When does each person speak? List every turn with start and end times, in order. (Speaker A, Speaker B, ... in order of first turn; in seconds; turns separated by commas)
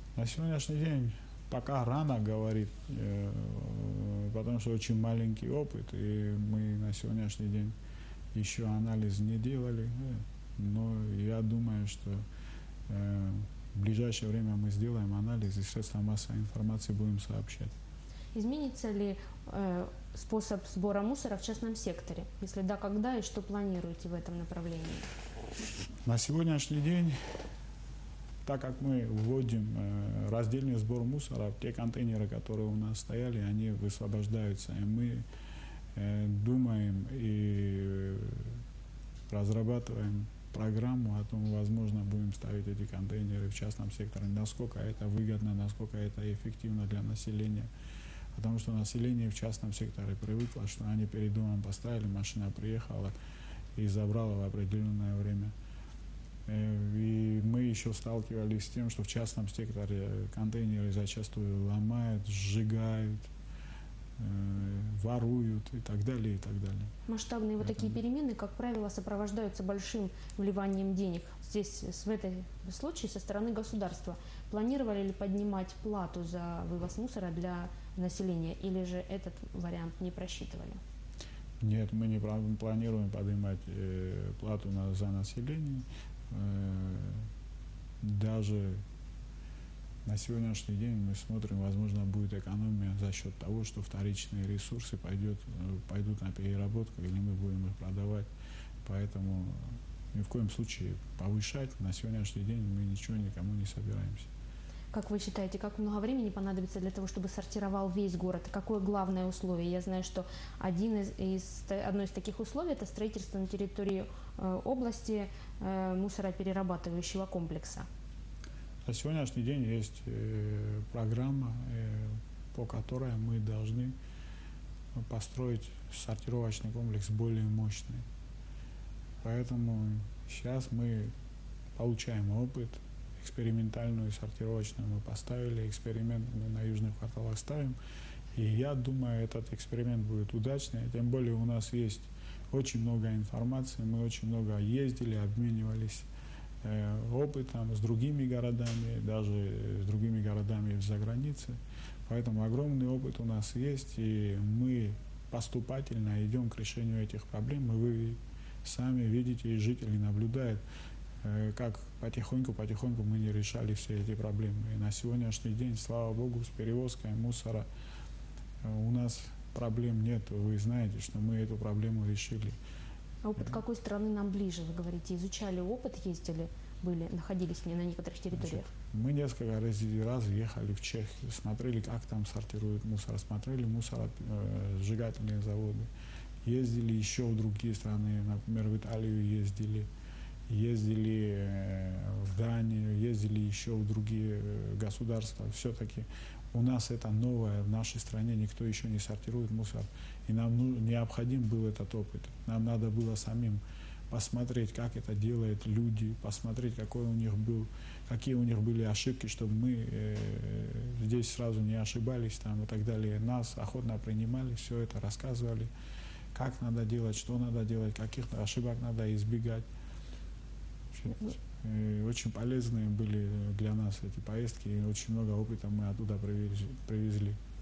Speaker A: 0.2-7.8, Speaker A: 8.3-12.2, Speaker A: 12.9-17.7, Speaker B: 18.3-25.1, Speaker A: 26.1-27.2, Speaker A: 28.4-35.2, Speaker A: 36.0-38.6, Speaker A: 39.3-47.7, Speaker A: 48.4-53.1, Speaker A: 53.8-55.5, Speaker A: 56.5-63.2, Speaker A: 64.2-66.9, Speaker B: 67.1-80.8, Speaker A: 67.6-68.0, Speaker A: 81.6-87.3, Speaker A: 88.0-88.8, Speaker A: 90.0-98.3, Speaker A: 98.8-104.3, Speaker B: 104.9-117.9, Speaker A: 118.9-124.0, Speaker A: 125.0-128.1, Speaker A: 129.2-131.1, Speaker A: 131.8-137.8, Speaker A: 138.3-146.1, Speaker A: 146.6-160.6, Speaker A: 161.2-167.7, Speaker A: 168.6-172.6, Speaker B: 173.2-178.7, Speaker A: 178.3-185.9, Speaker A: 186.4-189.9, Speaker A: 190.5-215.7, Speaker A: 216.3-219.7, Speaker A: 220.9-227.4